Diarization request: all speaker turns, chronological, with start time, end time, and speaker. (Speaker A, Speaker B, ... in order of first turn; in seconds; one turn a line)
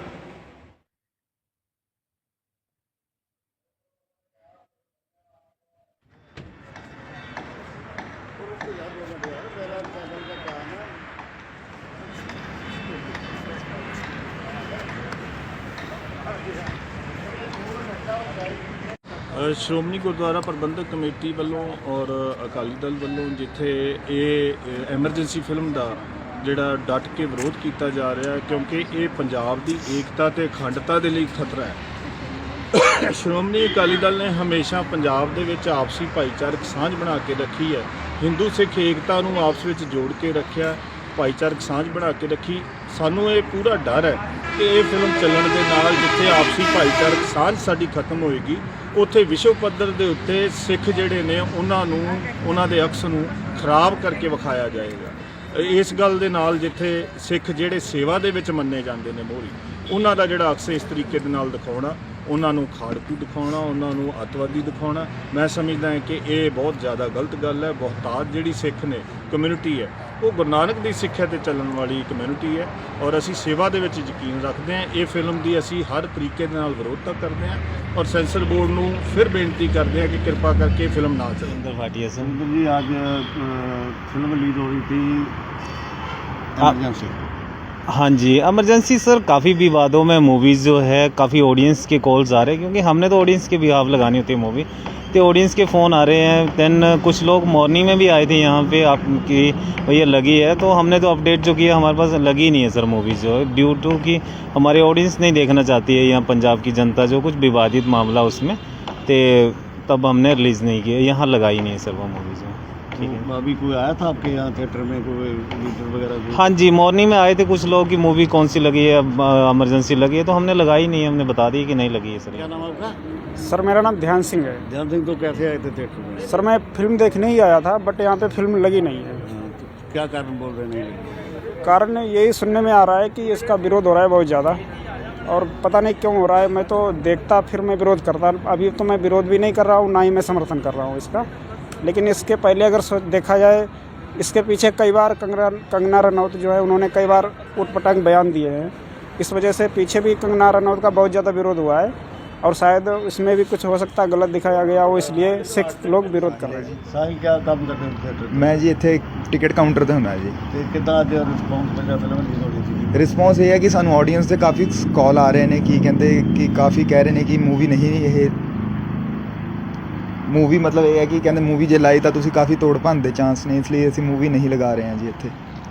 Speaker A: 19.3-31.8
Speaker A: 32.7-81.6
Speaker B: 81.5-82.4
Speaker C: 82.2-85.3
Speaker C: 86.6-87.2
Speaker B: 87.9-113.3
Speaker C: 113.0-116.6
Speaker B: 116.3-122.5
Speaker C: 122.3-123.0
Speaker D: 123.4-124.6
Speaker C: 124.7-126.3
Speaker D: 126.3-129.2
Speaker C: 129.2-131.1
Speaker D: 131.6-134.6
Speaker D: 135.3-141.3
Speaker D: 141.8-156.8
Speaker E: 156.4-156.8
Speaker C: 156.8-158.6
Speaker E: 158.3-160.4
Speaker C: 160.5-162.9
Speaker E: 162.9-168.3
Speaker E: 170.3-175.3